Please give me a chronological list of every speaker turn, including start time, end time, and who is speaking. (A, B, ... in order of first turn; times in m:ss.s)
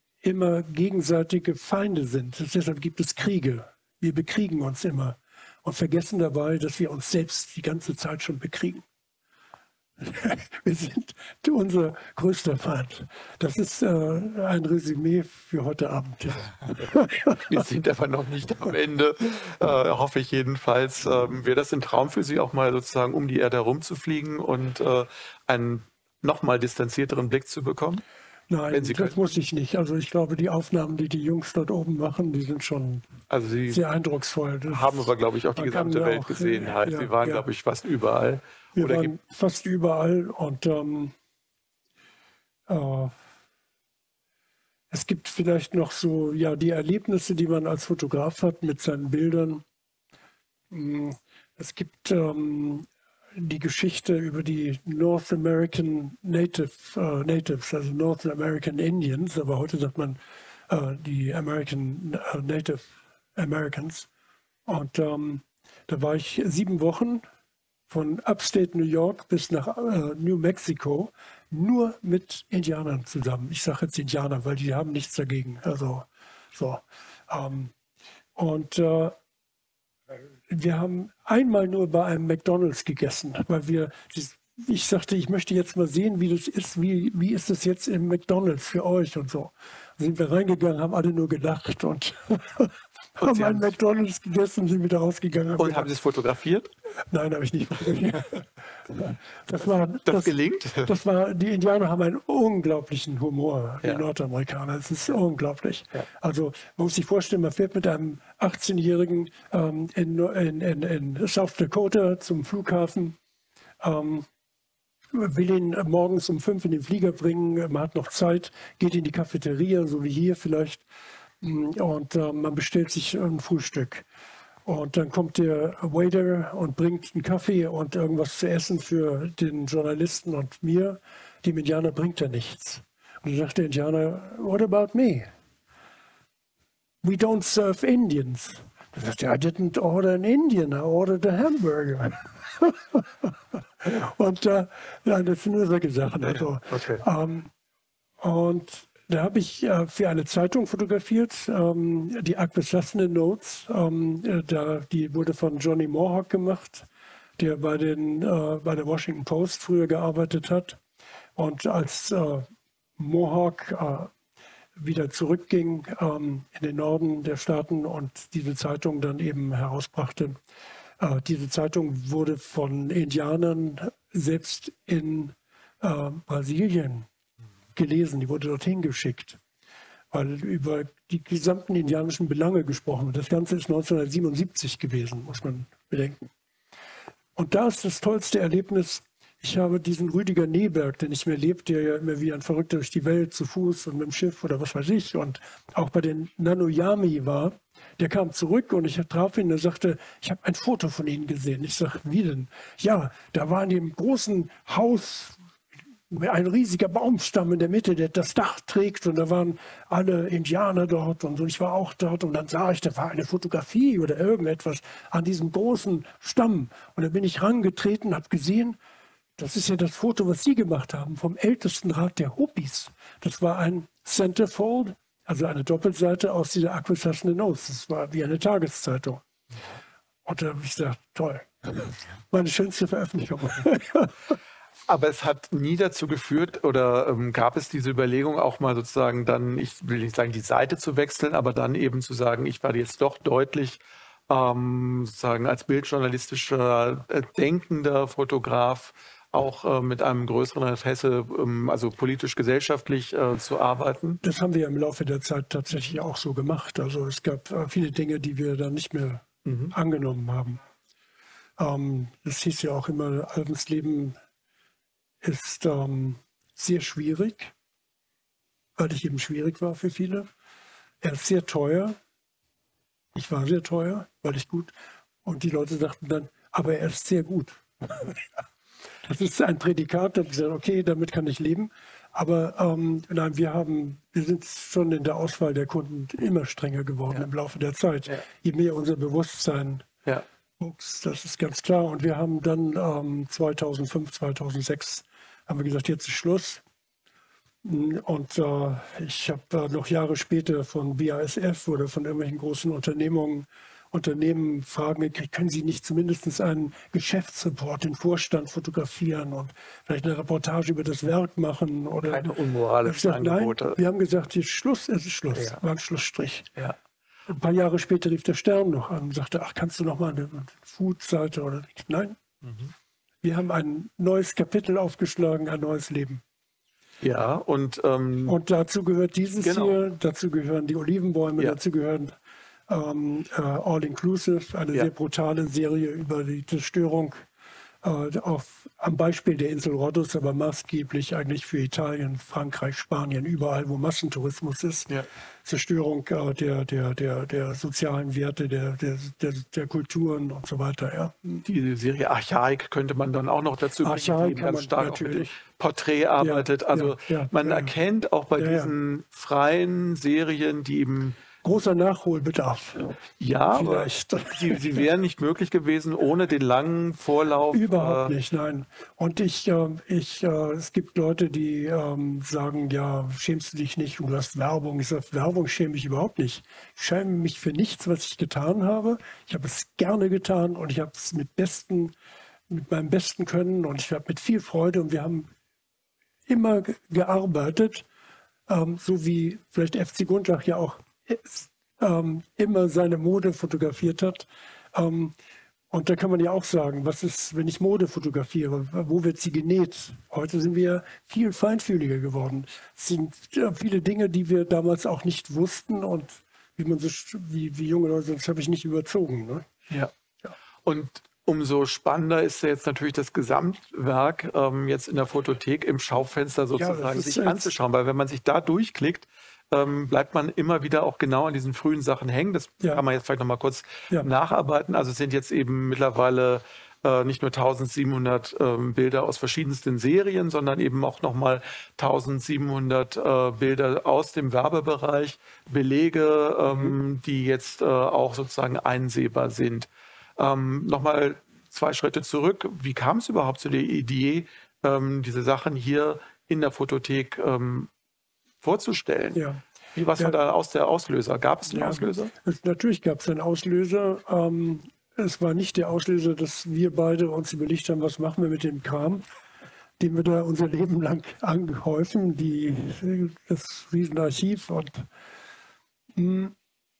0:00.2-0:08.8 A
0:10.0-0:17.6 A
0:17.4-0:28.0 B
0:28.5-0:33.1 A
0:28.7-0:29.3 B
0:33.3-0:33.8 B
0:33.7-0:37.4 A
0:34.7-0:39.2 B
0:38.8-0:41.2 A
0:42.7-0:43.2 A
0:44.9-0:49.6 A
0:50.7-1:04.1 A
1:04.7-1:07.2 A
1:07.9-1:17.7 A
1:18.4-1:19.2 A
1:20.5-1:35.9 A
1:33.2-1:33.7 B
1:35.6-1:36.7 B
1:37.1-1:53.2 A
1:40.1-1:40.9 B
1:53.8-1:54.3 A
1:55.1-2:00.8 A
2:01.4-2:04.1 A
2:04.7-2:15.3 A
2:17.0-2:27.5 A
2:26.7-2:27.0 B
2:28.2-2:36.9 A
2:37.4-2:40.8 A
2:41.4-2:42.5 A
2:43.0-2:44.1 A
2:44.8-2:50.4 A
2:51.0-2:57.1 A
2:57.8-2:59.4 A
3:00.1-3:06.3 A
3:07.4-3:25.4 A
3:26.1-3:38.8 A
3:39.4-3:49.2 A
3:50.3-3:54.4 A
3:54.9-4:14.2 B
4:14.2-4:20.6 A
4:19.4-4:19.7 B
4:21.6-4:24.2 A
4:25.2-4:27.5 A
4:28.8-4:30.3 A
4:31.0-4:32.0 A
4:33.1-4:34.7 A
4:35.2-4:38.2 A
4:39.0-4:49.9 A
4:50.6-4:56.6 A
4:57.6-5:16.5 A
5:12.0-5:13.8 B
5:15.3-5:15.6 B
5:17.3-5:22.2 A
5:22.4-5:22.7 B
5:23.2-5:26.2 A
5:27.0-5:28.4 B
5:28.3-5:32.1 A
5:29.4-5:29.8 B
5:32.7-5:37.3 A
5:37.8-5:44.9 A
5:45.4-5:51.4 A
5:51.4-6:01.2 B
5:53.8-5:55.4 A
5:56.2-5:57.7 A
5:58.4-5:58.7 A
6:01.4-6:03.0 A
6:03.2-6:08.1 B
6:03.5-6:04.9 A
6:07.5-6:21.9 A
6:22.5-6:25.3 A
6:26.3-6:27.9 A
6:28.5-6:35.2 A
6:35.7-6:50.3 A
6:50.6-7:27.7 B
6:56.6-6:57.5 A
7:16.5-7:16.8 A
7:28.4-7:29.2 B
7:29.1-7:29.4 A
7:29.8-7:32.1 B
7:31.5-7:39.0 A
7:39.8-7:44.9 A
7:46.0-7:46.4 A